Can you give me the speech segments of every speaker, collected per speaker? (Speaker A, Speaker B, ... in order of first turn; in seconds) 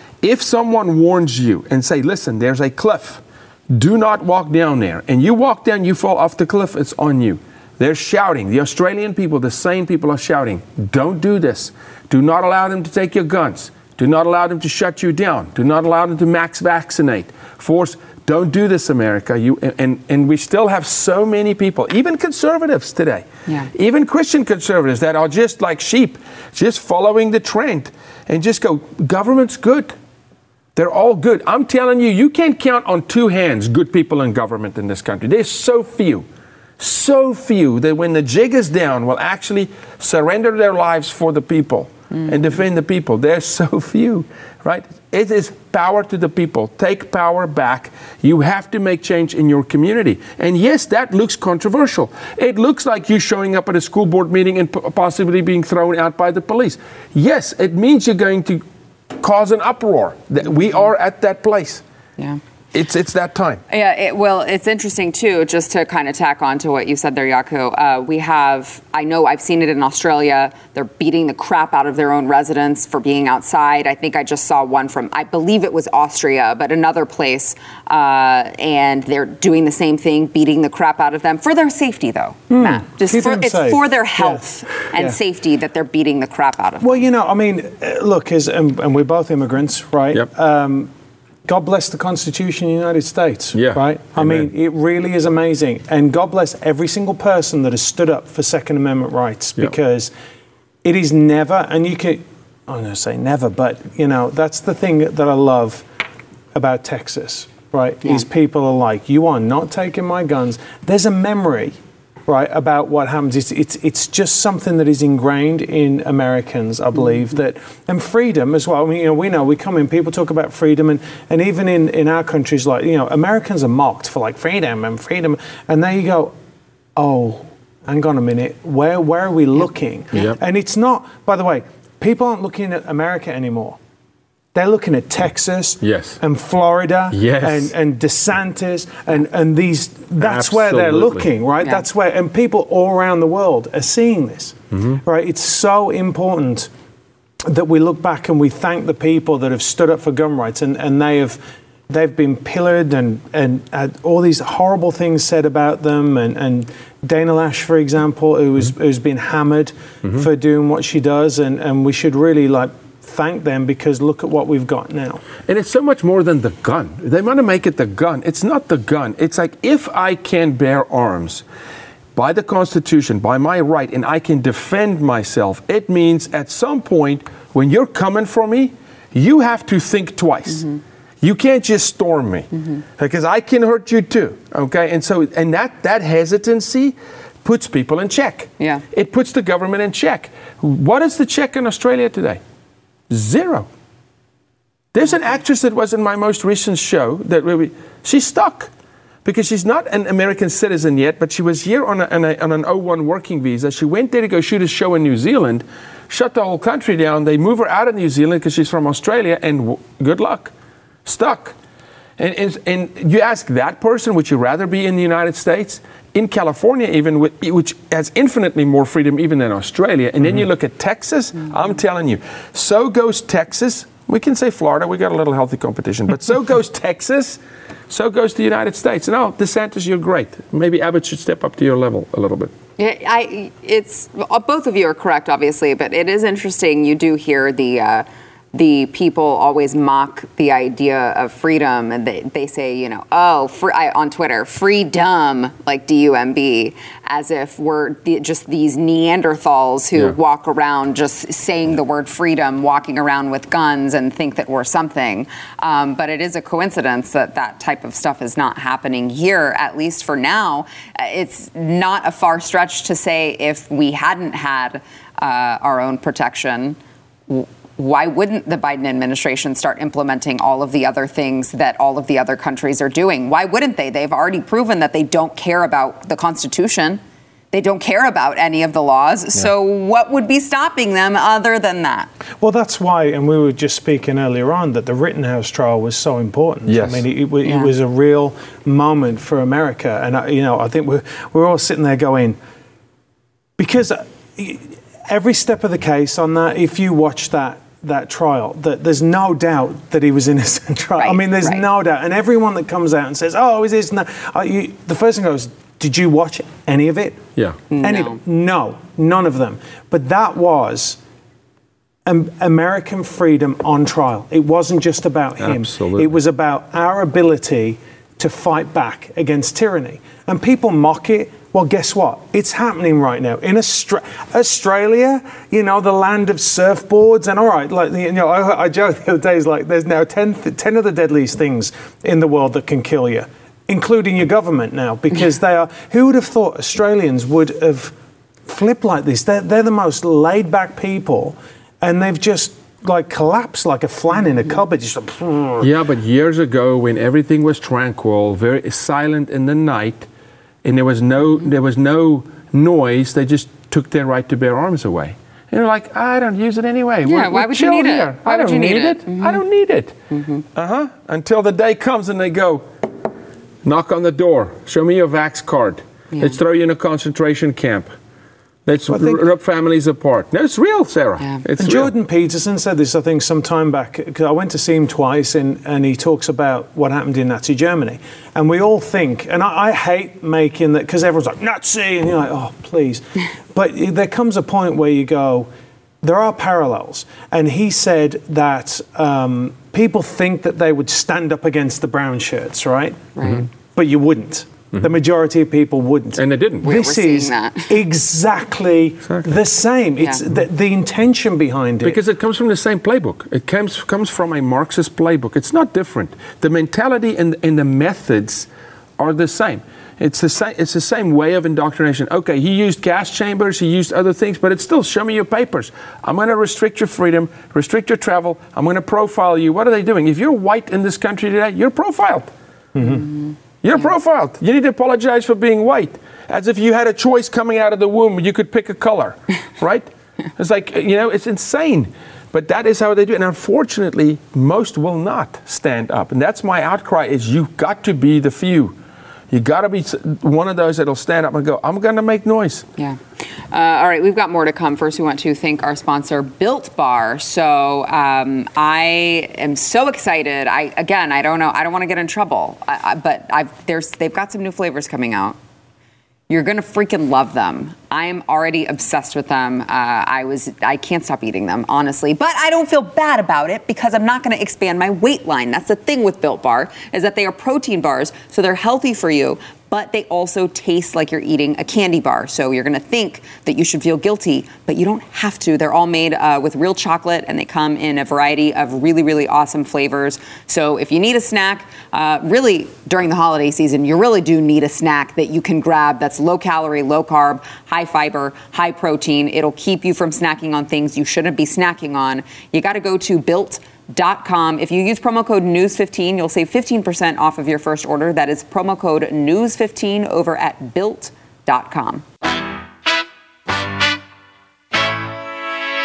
Speaker A: 0.2-29.9, 30.8-36.3, 36.8-58.6, 59.2-61.8, 62.7-63.6, 93.5-94.5, 135.8-136.2, 137.1-137.7, 140.2-141.3, 144.7-145.0, 165.5-171.4, 172.2-180.7, 181.2-192.4, 193.1-193.7, 194.9-198.7, 199.2-210.5, 211.1-211.6, 212.2-227.4, 227.9-232.5, 286.7-287.1, 315.4-316.1, 345.6-350.1, 350.6-360.0, 360.6-362.6, 363.6-367.9, 368.7-371.9, 396.2-396.7, 399.1-399.4, 401.8-422.3, 423.6-438.8, 439.3-442.7
Speaker B: 63.7-87.1, 180.5-180.8, 182.5-182.8, 232.8-277.0, 277.5-282.1, 287.4-287.7, 301.0-301.6, 307.7-308.2, 357.1-359.4, 360.1-360.4, 393.2-393.4, 396.6-397.8, 422.8-423.1, 442.8-455.4, 456.3-502.0
Speaker C: 82.5-85.2, 86.8-90.9, 91.5-100.1, 100.8-105.9, 106.5-126.3, 127.0-133.8, 134.5-146.7, 147.5-165.2, 282.4-292.4, 293.6-307.2, 307.8-311.0, 312.1-337.9, 338.5-345.7, 368.9-369.2, 371.6-385.5, 386.0-402.0, 422.8-423.1